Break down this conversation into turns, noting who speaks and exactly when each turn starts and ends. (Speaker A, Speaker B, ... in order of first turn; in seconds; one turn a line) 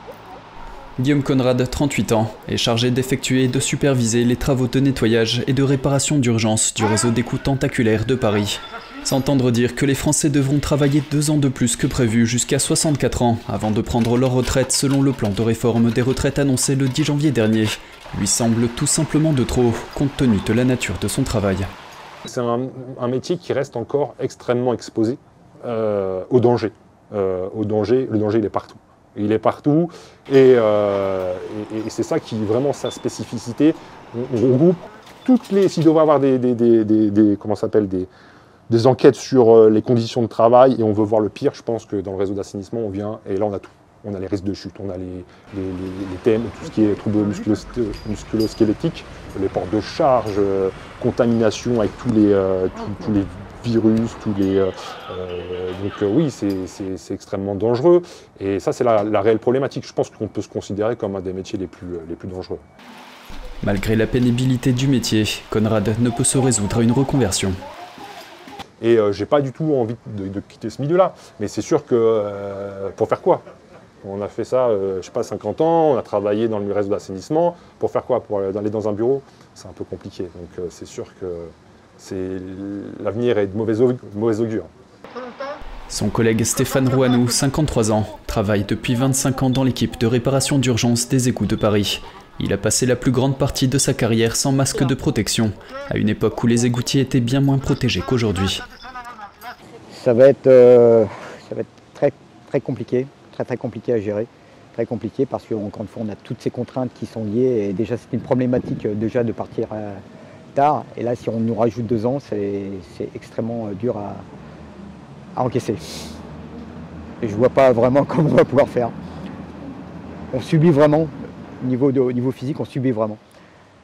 Speaker A: 1.0-21.7
Speaker B: 22.2-38.1
Speaker B: 38.7-62.6
Speaker A: 63.6-67.5
Speaker B: 68.8-73.4
Speaker B: 74.0-84.7
Speaker A: 85.9-98.6
Speaker C: 100.0-110.0
Speaker C: 110.5-114.2
Speaker C: 115.3-115.8
Speaker C: 117.2-118.9
Speaker C: 120.3-123.2